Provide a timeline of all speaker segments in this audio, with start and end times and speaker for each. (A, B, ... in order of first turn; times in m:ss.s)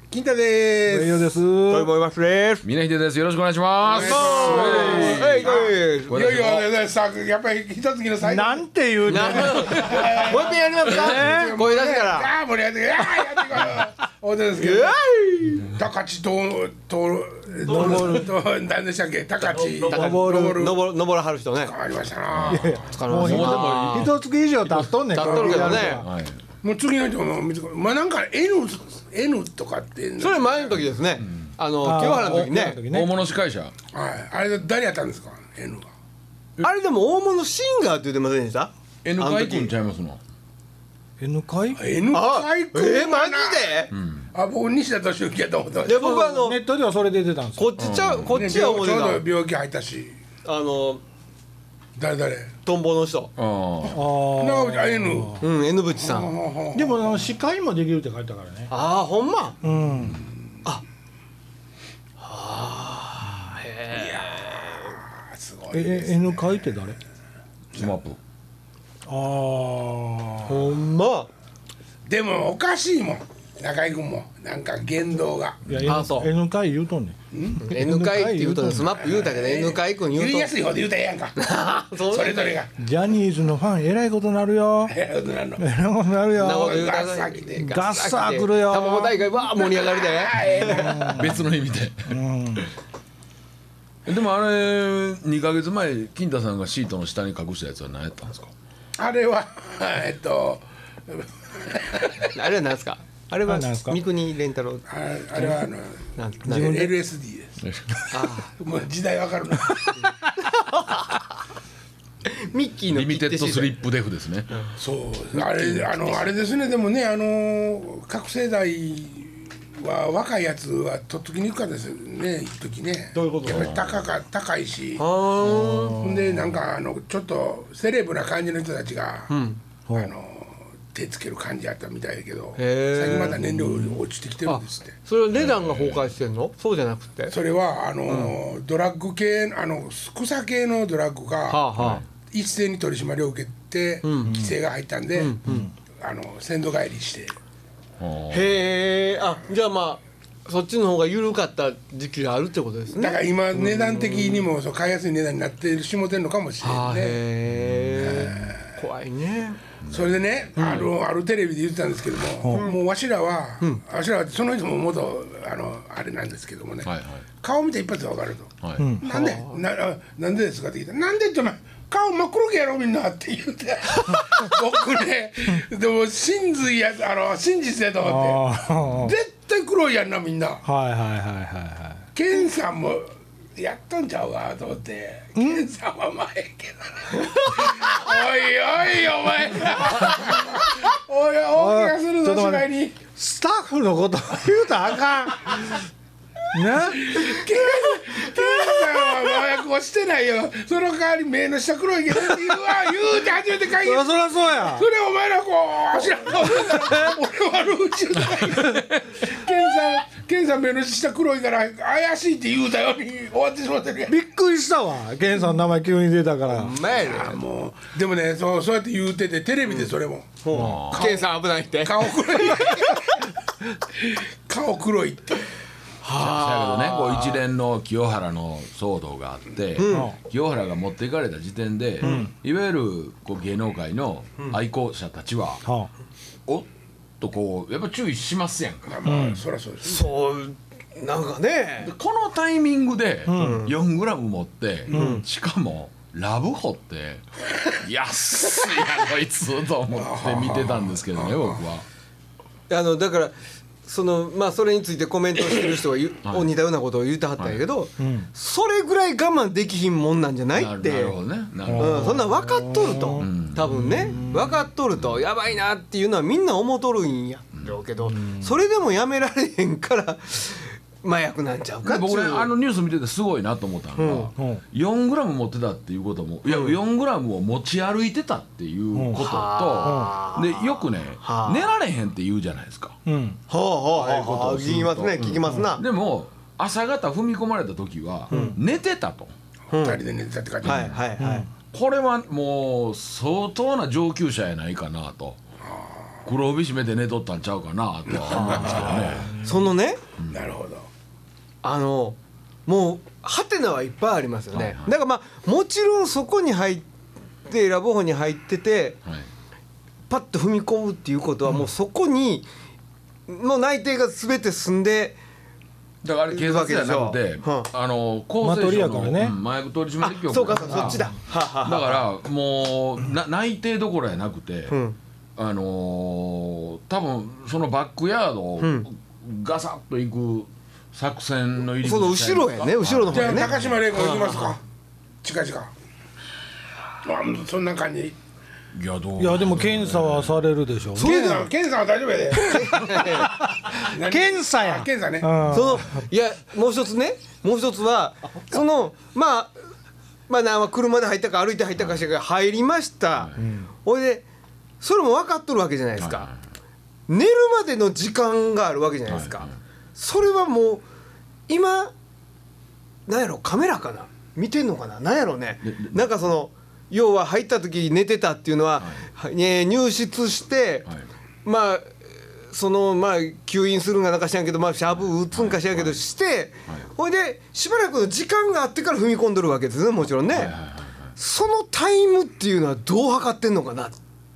0:00.1-0:01.4 A
0:00.9-0:01.9 B
0:01.7-0:02.6 C
0:02.6-0:06.7 D
0:03.8-0:15.0 A
0:03.9-0:06.2 C
0:04.3-0:05.2 B
0:08.2-0:10.1 B
0:09.1-0:12.3 C
0:10.9-0:11.7 B
0:13.0-0:13.4 C
0:14.6-0:15.7 C
0:15.7-0:20.8 A
0:17.6-0:18.3 B
0:19.5-0:19.9 D
0:19.8-0:21.8 C
0:19.9-0:20.8 B
0:21.6-0:22.9 A
0:22.3-0:24.1 D
0:22.5-0:26.1 B
0:22.7-0:24.1 C
0:24.7-0:24.9 D
0:25.1-0:26.0 A
0:25.1-0:26.0 C
0:25.7-0:26.4 D
0:26.6-0:30.8 A
0:30.2-0:32.8 C
0:31.8-0:33.1 B
0:32.9-0:33.7 D
0:33.9-0:35.9 A
0:36.6-0:39.7 C
0:39.0-0:40.2 D
0:41.2-0:41.8 B
0:41.8-0:46.2 A
0:42.1-0:43.9 C
0:43.9-0:44.3 D
0:45.8-0:46.6 C
0:46.0-0:47.7 B
0:47.6-0:49.2 C
0:47.8-0:48.3 D
0:48.2-0:50.2 A
0:50.4-0:51.0 C
0:52.0-0:52.5 A
0:52.6-0:53.3 C
0:53.4-0:54.0 D
0:53.8-0:57.3 A
0:53.9-0:55.5 B
0:55.4-0:56.3 C
0:56.7-0:58.7 B
0:58.7-0:59.6 C
0:59.6-1:00.2 B
1:02.2-1:05.0 C
1:03.9-1:06.8 A
1:05.7-1:07.0 B
1:07.8-1:08.2 D
1:09.1-1:10.7 B
1:10.4-1:11.3 C
1:12.1-1:15.6 A
1:15.7-1:18.9 B
1:15.7-1:16.0 D
1:15.9-1:16.3 C
1:17.3-1:17.7 A
1:17.6-1:20.5 C
1:18.9-1:21.4 A
1:21.4-1:22.6 C
1:22.0-1:22.7 A
1:22.8-1:25.0 B
1:24.9-1:25.7 A
1:25.6-1:26.9 B
1:26.4-1:31.2 C
1:26.4-1:27.8 A
1:27.6-1:29.2 B
1:29.6-1:31.3 A
1:30.7-1:31.5 B
1:31.1-1:32.6 D
1:32.1-1:32.7 B
1:34.1-1:38.5 D
1:39.0-1:42.3 A
1:42.3-1:44.9 C
1:43.5-1:44.0 B
1:44.9-1:47.6 A
1:46.2-1:46.9 C
1:46.4-1:46.9 B
1:47.6-1:48.3 D
1:48.1-1:48.5 C
1:48.6-1:50.1 A
1:50.4-1:51.2 C
1:52.2-1:53.8 C
1:52.9-1:54.5 D
1:54.8-2:05.1 A
1:55.3-1:56.3 C
2:03.1-2:03.8 C
2:03.4-2:04.1 D
2:05.0-2:06.0 C
2:05.4-2:06.5 B
2:06.0-2:09.3 A
2:09.3-2:09.6 C
2:09.9-2:15.0 A
2:12.6-2:13.4 C
2:14.5-2:17.4 C
2:15.3-2:16.1 D
2:17.3-2:21.6 A
2:18.1-2:18.4 C
2:21.5-2:22.0 C
2:21.8-2:22.0 D
2:22.3-2:25.4 A
2:24.0-2:24.5 C
2:25.2-2:25.7 C
2:26.0-2:27.4 A
2:28.0-2:28.6 D
2:28.3-2:34.5 C
2:33.0-2:37.2 A
2:36.6-2:39.6 C
2:37.5-2:38.3 D
2:38.0-2:38.8 A
2:39.8-2:40.1 D
2:39.9-3:00.6 A
2:40.6-2:40.9 C
2:42.4-2:42.7 B
2:46.9-2:47.2 D
2:48.6-2:48.9 D
2:48.8-2:49.0 B
2:49.0-2:49.6 C
2:58.0-2:59.2 B
2:58.8-2:59.1 D
3:00.6-3:02.1 B
3:02.2-3:13.0 A
3:05.4-3:05.7 B
3:11.6-3:15.8 B
3:16.5-3:17.3 B
3:16.8-3:34.2 A
3:23.8-3:24.9 B
3:34.1-3:36.8 B
3:36.5-3:37.4 C
3:36.8-3:41.3 A
3:40.4-3:43.1 C
3:40.5-3:41.1 D
3:41.8-3:43.3 A
3:43.9-3:45.5 A
3:46.0-3:47.4 C
3:46.2-3:55.6 D
3:49.8-3:50.1 C
3:49.9-3:50.2 B
3:52.0-3:52.3 C
3:52.0-3:52.3 B
3:55.6-3:55.9 B
3:57.2-3:59.2 D
3:58.9-4:00.1 A
3:59.0-3:59.4 B
3:59.8-4:01.9 C
4:01.8-4:11.8 D
4:03.3-4:03.7 B
4:03.3-4:03.8 C
4:04.9-4:05.2 B
4:04.9-4:05.2 C
4:09.9-4:11.6 A
4:12.7-4:13.3 C
4:13.8-4:21.2 C
4:16.3-4:16.5 D
4:17.4-4:17.6 D
4:18.0-4:18.3 B
4:20.5-4:22.2 D
4:21.6-4:24.6 B
4:21.8-4:32.5 C
4:23.2-4:24.3 D
4:25.0-4:25.2 D
4:28.1-4:28.6 B
4:31.8-4:43.0 D
4:34.0-4:34.3 C
4:34.4-4:34.6 B
4:36.5-4:36.8 C
4:38.9-4:39.2 B
4:39.1-4:41.7 C
4:39.8-4:40.2 B
4:43.1-4:43.4 B
4:43.5-4:45.8 C
4:43.9-4:49.3 D
4:48.3-4:48.6 C
4:48.3-4:48.6 B
4:49.7-4:50.0 C
4:49.7-4:51.0 A
4:50.6-4:51.0 D
4:50.6-4:51.5 C
4:51.2-4:51.5 B
4:51.7-4:55.4 D
4:55.6-4:56.2 A
4:56.3-4:59.4 D
4:58.1-4:59.4 A
4:58.3-5:00.0 C
5:00.3-5:00.9 A
5:01.6-5:06.9 C
5:04.5-5:04.9 D
5:07.4-5:09.0 C
5:10.1-5:12.5 C
5:13.3-5:15.2 C
5:16.0-5:24.8 D
5:16.3-5:17.7 C
5:18.4-5:19.4 B
5:20.0-5:22.1 C
5:20.7-5:21.1 B
5:24.7-5:25.0 C
5:25.4-5:33.8 D
5:28.6-5:28.9 C
5:31.8-5:34.6 C
5:33.1-5:34.6 A
5:35.2-5:35.7 A
5:37.0-5:38.2 A
5:38.7-5:40.5 D
5:39.2-5:41.5 B
5:41.0-5:43.0 A
5:41.0-5:41.5 C
5:42.4-5:43.4 C
5:42.9-5:46.0 B
5:43.7-5:45.4 A
5:45.5-5:49.5 C
5:50.3-5:53.3 C
5:53.4-5:53.7 B
5:53.8-5:54.2 C
5:54.8-5:56.3 C
5:56.0-5:56.4 D
5:57.1-6:00.8 C
5:59.1-5:59.5 D
6:01.5-6:01.9 C
6:03.1-6:10.9 C
6:05.6-6:06.1 D
6:11.4-6:12.0 C
6:12.5-6:20.6 C
6:15.0-6:16.0 D
6:20.3-6:21.1 D
6:21.2-6:24.0 C